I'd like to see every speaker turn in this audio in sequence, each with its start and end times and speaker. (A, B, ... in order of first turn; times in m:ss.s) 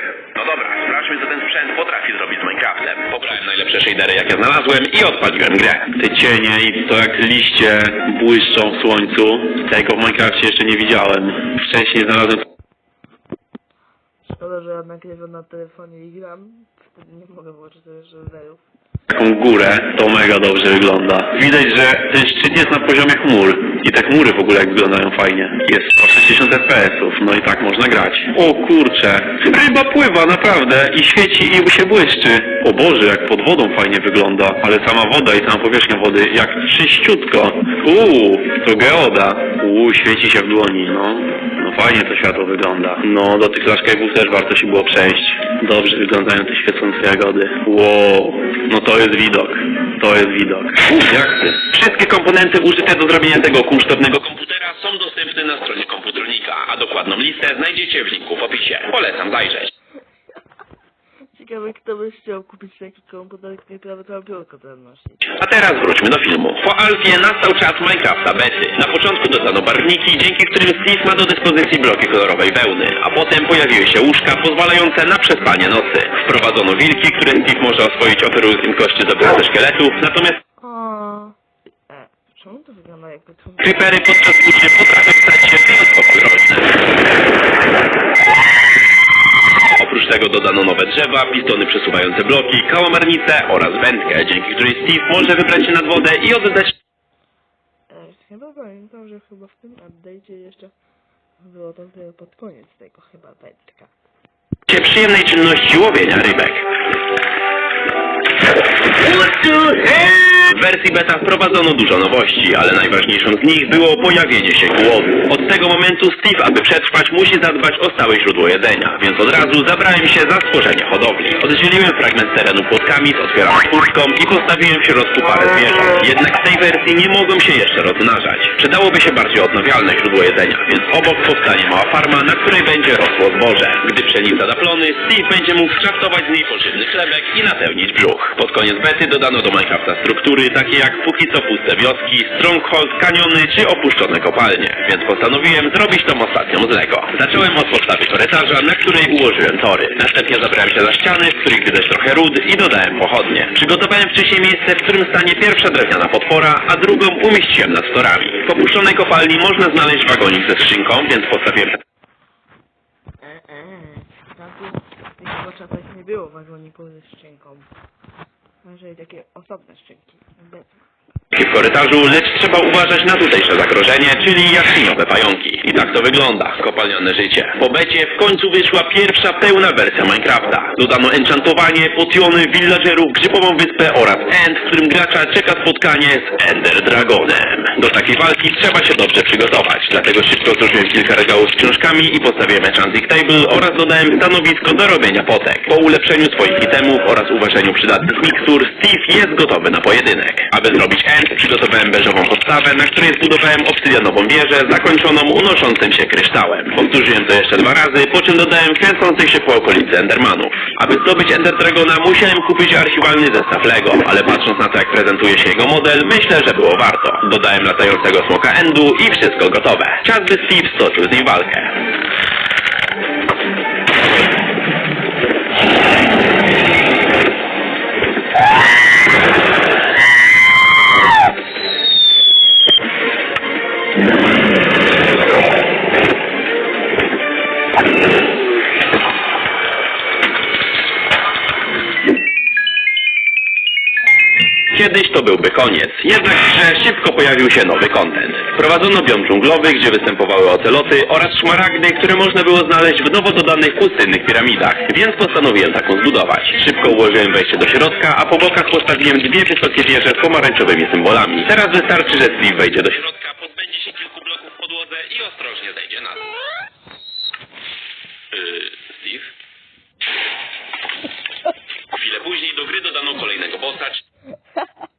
0:00.3-0:05.9 A
0:06.0-0:12.4 B
0:14.3-0:18.6 C
0:19.1-0:50.8 B
0:50.8-0:59.7 A
1:01.3-1:05.2 C
1:05.4-1:20.4 A
1:20.6-1:21.4 C
1:21.9-1:23.9 C
1:23.6-1:26.8 A
1:29.8-1:36.8 A
1:37.9-1:40.7 C
1:41.4-1:43.9 C
1:44.7-1:46.7 A
1:50.4-2:41.8 A
2:43.2-2:47.7 C
2:48.6-2:50.8 C
2:51.3-3:41.8 A
4:04.7-4:26.3 A
4:28.3-4:29.3 A
4:31.9-4:34.0 A